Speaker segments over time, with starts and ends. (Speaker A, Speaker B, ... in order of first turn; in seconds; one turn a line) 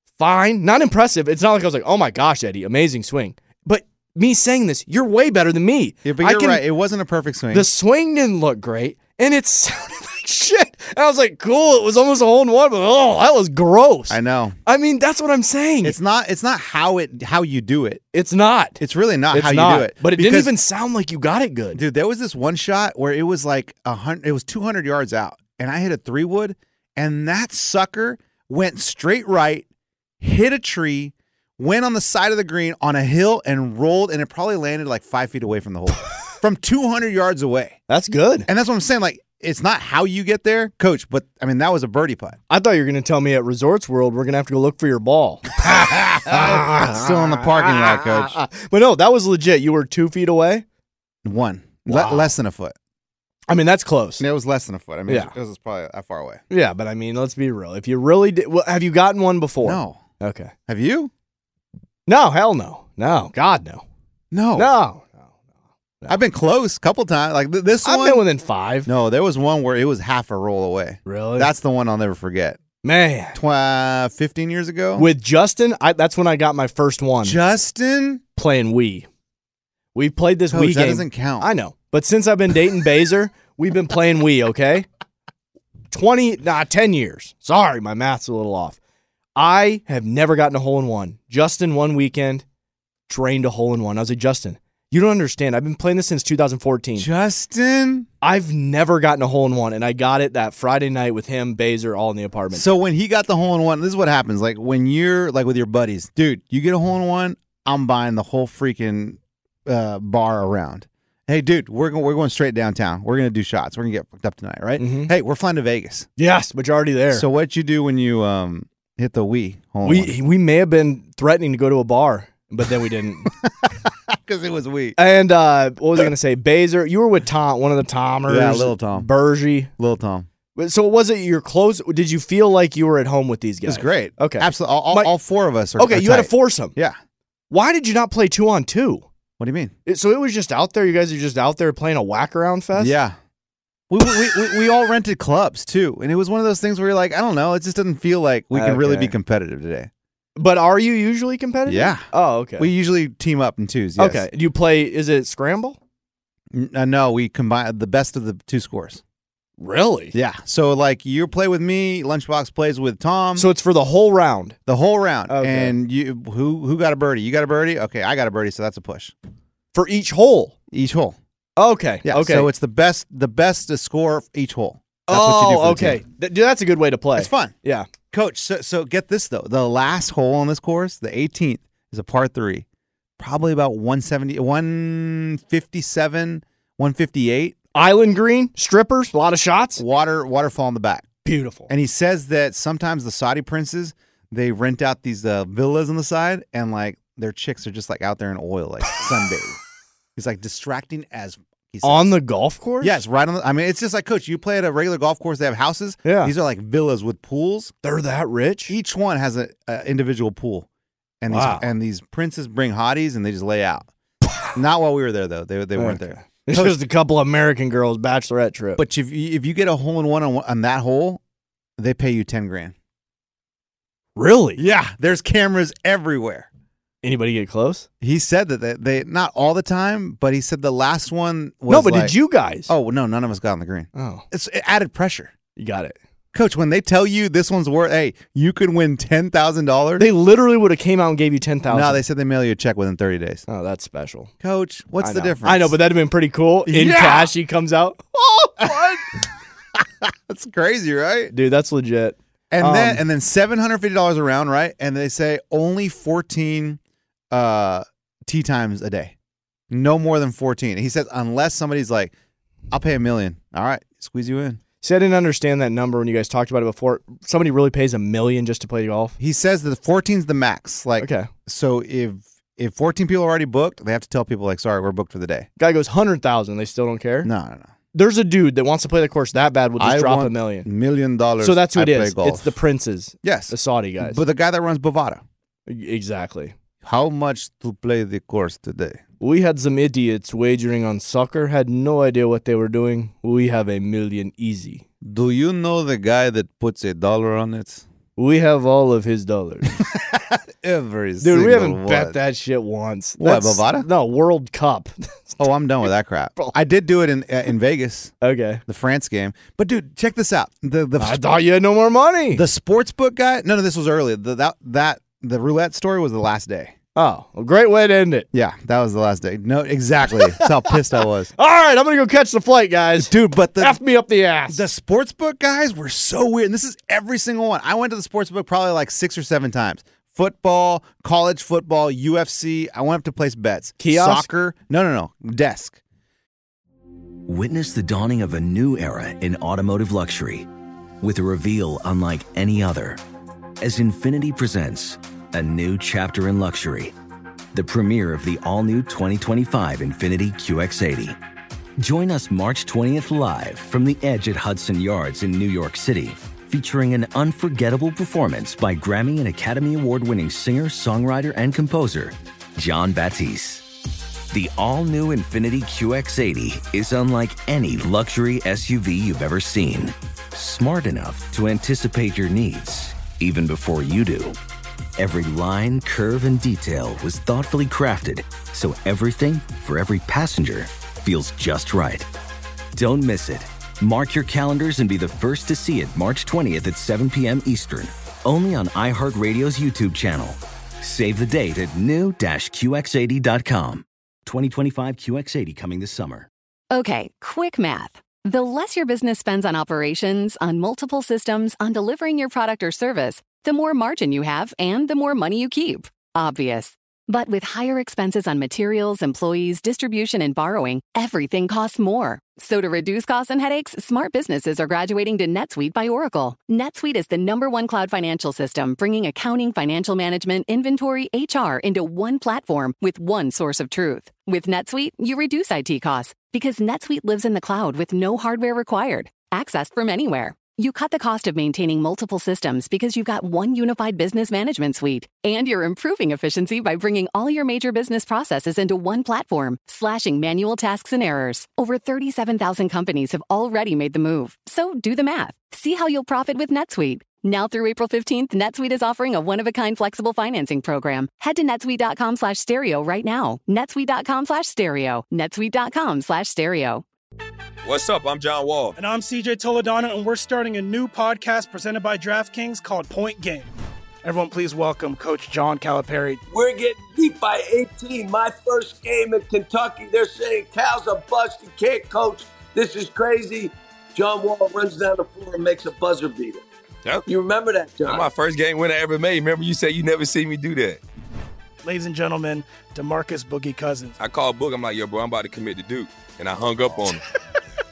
Speaker A: 0.2-6.6
Speaker B: 6.0-7.7
Speaker A: 7.5-16.0
Speaker B: 14.1-14.6
Speaker B: 15.8-18.0
Speaker A: 18.1-18.8
Speaker B: 18.8-20.5
Speaker A: 19.3-21.8
Speaker B: 21.7-29.6
Speaker B: 30.2-37.8
Speaker A: 37.9-38.5
Speaker B: 38.5-42.4
Speaker A: 42.5-50.6
Speaker B: 45.6-48.4
Speaker B: 51.2-52.7
Speaker A: 51.9-52.3
Speaker A: 53.5-54.2
Speaker B: 54.2-56.4
Speaker A: 55.1-55.3
Speaker A: 56.5-60.5
Speaker B: 59.6-60.0
Speaker B: 60.7-61.1
Speaker A: 62.1-63.8
Speaker B: 64.3-64.7
Speaker A: 64.5-65.2
Speaker B: 66.1-68.2
Speaker A: 67.8-68.9
Speaker B: 68.8-72.6
Speaker A: 71.0-71.5
Speaker A: 72.8-73.4
Speaker B: 73.3-75.1
Speaker A: 75.0-77.4
Speaker B: 77.2-78.2
Speaker A: 78.3-79.0
Speaker A: 79.9-84.8
Speaker B: 80.5-81.5
Speaker A: 85.9-88.8
Speaker A: 89.3-92.4
Speaker A: 93.1-97.1
Speaker B: 97.0-98.1
Speaker A: 98.2-102.6
Speaker B: 102.5-116.1
Speaker A: 114.8-115.1
Speaker A: 116.2-117.3
Speaker B: 117.1-120.1
Speaker A: 119.8-123.3
Speaker B: 123.3-125.0
Speaker A: 125.0-129.7
Speaker B: 128.3-129.1
Speaker B: 129.8-130.3
Speaker A: 130.5-135.1
Speaker B: 133.7-137.0
Speaker A: 135.8-136.7
Speaker A: 137.5-139.1
Speaker B: 139.4-139.7
Speaker A: 139.8-142.9
Speaker B: 142.7-143.2
Speaker B: 143.9-149.9
Speaker A: 148.5-149.1
Speaker A: 150.3-152.7
Speaker B: 151.7-152.1
Speaker B: 152.6-154.2
Speaker A: 154.0-155.8
Speaker B: 156.5-159.0
Speaker A: 159.6-160.1
Speaker B: 160.1-163.5
Speaker A: 163.3-164.6
Speaker B: 164.7-169.1
Speaker A: 165.3-165.7
Speaker A: 169.7-170.5
Speaker B: 170.7-171.2
Speaker A: 171.6-172.5
Speaker B: 172.0-176.0
Speaker A: 175.1-177.9
Speaker B: 177.2-177.5
Speaker B: 178.1-182.7
Speaker B: 183.2-187.6
Speaker A: 187.7-189.8
Speaker B: 189.8-191.1
Speaker A: 191.2-191.7
Speaker B: 191.7-199.6
Speaker B: 200.2-202.1
Speaker A: 201.8-203.0
Speaker B: 202.8-207.7
Speaker A: 206.0-206.3
Speaker A: 207.8-208.8
Speaker B: 208.7-210.7
Speaker B: 211.2-213.9
Speaker A: 211.3-211.7
Speaker B: 214.5-216.8
Speaker A: 215.8-218.8
Speaker B: 218.8-221.2
Speaker B: 221.8-222.7
Speaker A: 224.2-224.6
Speaker B: 224.6-226.5
Speaker A: 227.0-227.9
Speaker B: 228.0-235.3
Speaker A: 231.7-232.7
Speaker A: 233.9-234.2
Speaker A: 235.6-236.0
Speaker B: 236.3-240.1
Speaker A: 240.0-242.0
Speaker B: 241.7-243.4
Speaker A: 243.5-244.3
Speaker B: 244.4-245.8
Speaker A: 245.0-249.0
Speaker B: 246.7-247.3
Speaker B: 248.6-249.0
Speaker B: 249.7-251.3
Speaker A: 251.3-253.0
Speaker B: 252.5-256.8
Speaker B: 257.3-259.1
Speaker B: 259.7-262.1
Speaker B: 262.7-264.6
Speaker A: 264.8-269.1
Speaker B: 269.2-275.5
Speaker A: 271.0-271.3
Speaker A: 275.6-277.3
Speaker B: 277.2-277.7
Speaker A: 277.9-280.7
Speaker B: 279.8-282.6
Speaker A: 281.4-284.2
Speaker B: 283.2-285.2
Speaker A: 285.7-286.5
Speaker B: 286.8-289.0
Speaker A: 289.2-294.8
Speaker B: 295.0-297.8
Speaker A: 298.2-299.8
Speaker B: 299.7-302.2
Speaker A: 301.2-305.4
Speaker B: 303.2-303.9
Speaker B: 305.4-308.1
Speaker A: 308.2-308.6
Speaker B: 308.7-311.2
Speaker A: 311.0-312.4
Speaker B: 312.3-316.7
Speaker A: 316.9-318.3
Speaker B: 318.3-321.3
Speaker A: 320.1-324.6
Speaker B: 323.0-323.8
Speaker B: 324.5-335.8
Speaker A: 333.8-334.3
Speaker C: 337.3-340.5
Speaker C: 341.0-343.0
Speaker C: 343.6-346.9
Speaker C: 347.5-351.2
Speaker C: 351.8-363.7
Speaker C: 364.3-374.4
Speaker C: 375.0-382.1
Speaker C: 382.7-396.3
Speaker D: 396.7-456.8
Speaker E: 457.6-458.8
Speaker F: 458.8-463.5
Speaker F: 464.0-466.2
Speaker G: 466.3-476.4
Speaker G: 477.1-478.1
Speaker E: 477.8-480.8
Speaker F: 481.6-483.9
Speaker E: 484.0-487.0